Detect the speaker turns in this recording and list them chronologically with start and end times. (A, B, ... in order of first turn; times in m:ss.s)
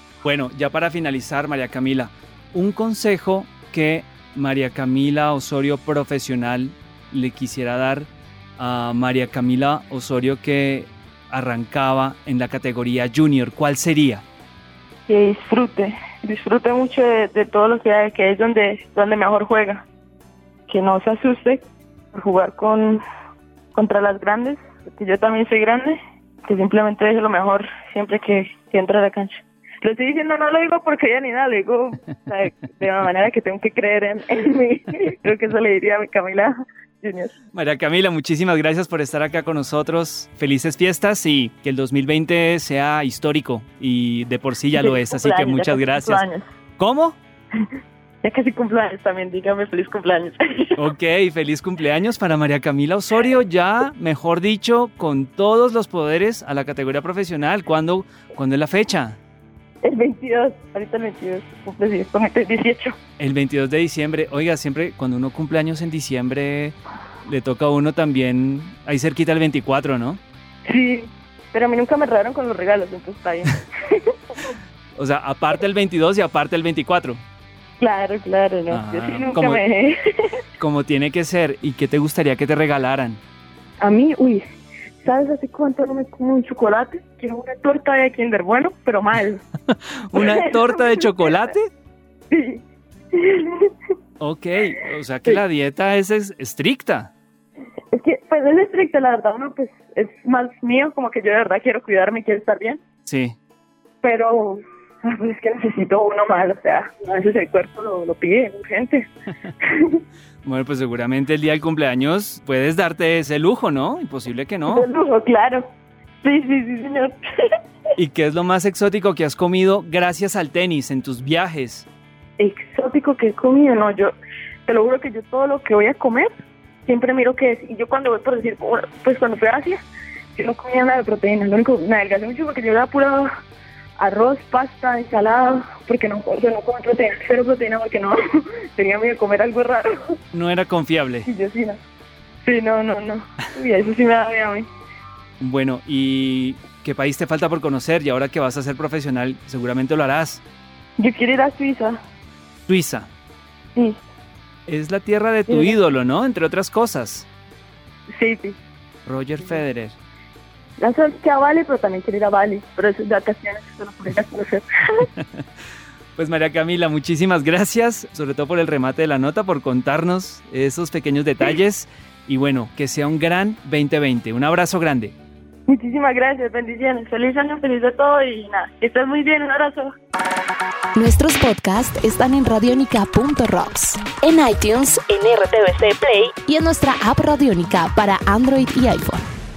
0:00.2-0:14.2 A
0:15.1-0:19.8 B
0:20.7-0:23.0 B
0:23.7-0:37.3 B
0:37.5-0:46.2 A
0:44.7-0:46.4 B
0:46.8-0:47.2 A
0:48.2-0:50.8 B
0:50.8-0:59.2 A
0:59.8-1:02.9 B
1:03.2-1:10.2 A
1:10.7-1:14.5 B
1:15.0-1:17.2 A
1:17.8-1:20.0 B
1:18.7-1:19.6 A
1:20.6-1:23.2 A
1:23.8-1:24.4 B
1:25.0-1:29.4 B
1:29.7-1:31.7 A
1:30.1-1:31.2 B
1:32.3-1:32.6 B
1:33.2-1:33.7 B
1:34.2-1:37.1 A
1:37.9-1:42.8 B
1:43.0-1:43.4 A
1:44.0-1:49.1 B
1:49.6-1:50.0 B
1:50.4-1:54.9 A
1:54.7-1:55.6 B
1:56.2-1:57.2 B
1:58.0-2:01.9 A
2:02.4-2:04.1 B
2:04.6-2:06.3 B
2:06.8-2:09.8 B
2:10.3-2:13.3 B
2:14.0-2:18.2 B
2:18.7-2:20.1 B
2:20.3-2:21.3 A
2:21.2-2:21.8 B
2:22.4-2:24.7 B
2:25.4-2:30.4 A
2:31.0-2:32.0 B
2:32.7-2:33.1 A
2:34.7-2:37.3 A
2:35.5-2:35.8 B
2:38.2-2:38.6 B
2:39.0-2:40.0 A
2:40.8-2:45.1 B
2:45.2-2:45.4 A
2:46.2-2:55.2 A
2:55.7-2:59.9 B
3:00.9-3:09.2 C